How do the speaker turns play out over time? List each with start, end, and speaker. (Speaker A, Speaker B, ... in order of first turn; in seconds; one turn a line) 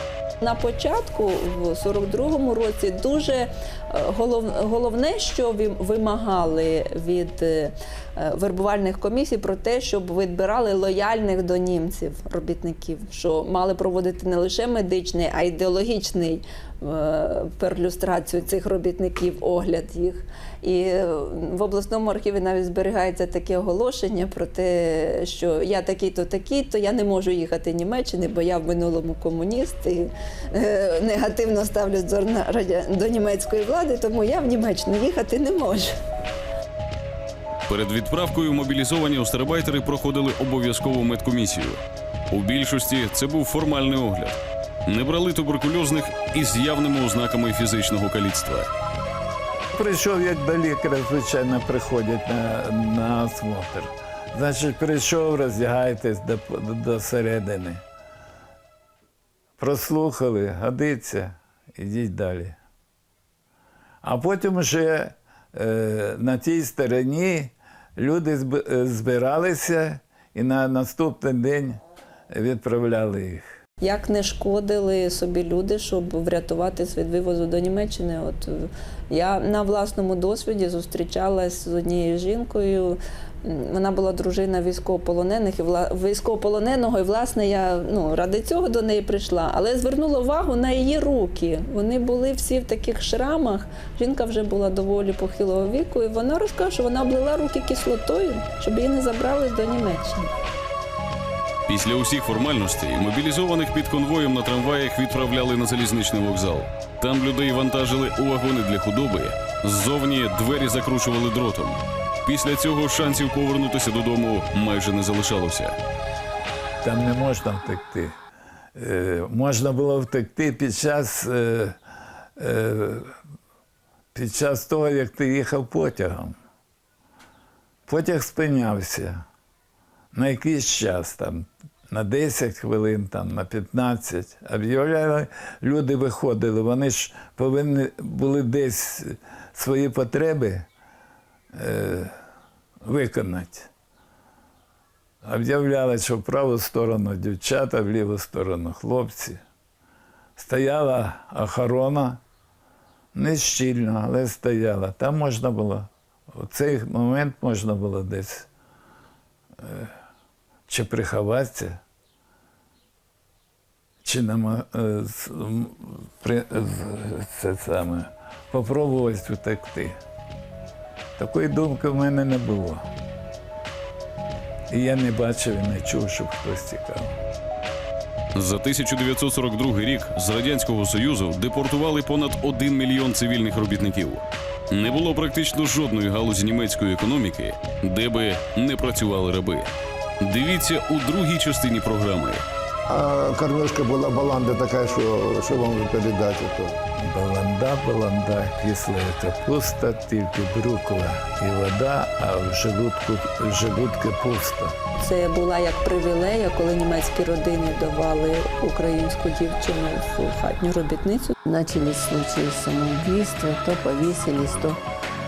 Speaker A: 0.4-35.9
Speaker B: 37.7-48.7
Speaker C: 49.7-57.8
Speaker C: 59.6-62.6
Speaker C: 64.0-73.5
Speaker A: 73.8-100.3
Speaker B: 101.7-115.8
Speaker C: 116.8-118.2
Speaker C: 118.8-121.8
Speaker C: 122.4-123.2
Speaker C: 124.1-126.3
Speaker C: 127.9-129.2
Speaker C: 130.1-140.7
Speaker C: 141.5-142.2
Speaker C: 142.8-143.7
Speaker C: 145.2-149.4
Speaker C: 150.4-152.2
Speaker C: 153.1-158.5
Speaker C: 159.6-159.9
Speaker C: 160.7-161.8
Speaker C: 164.0-170.0
Speaker C: 171.2-172.8
Speaker C: 174.7-177.1
Speaker B: 178.3-192.4
Speaker D: 192.9-196.8
Speaker C: 197.0-204.8
Speaker A: 205.0-211.3
Speaker E: 211.4-214.8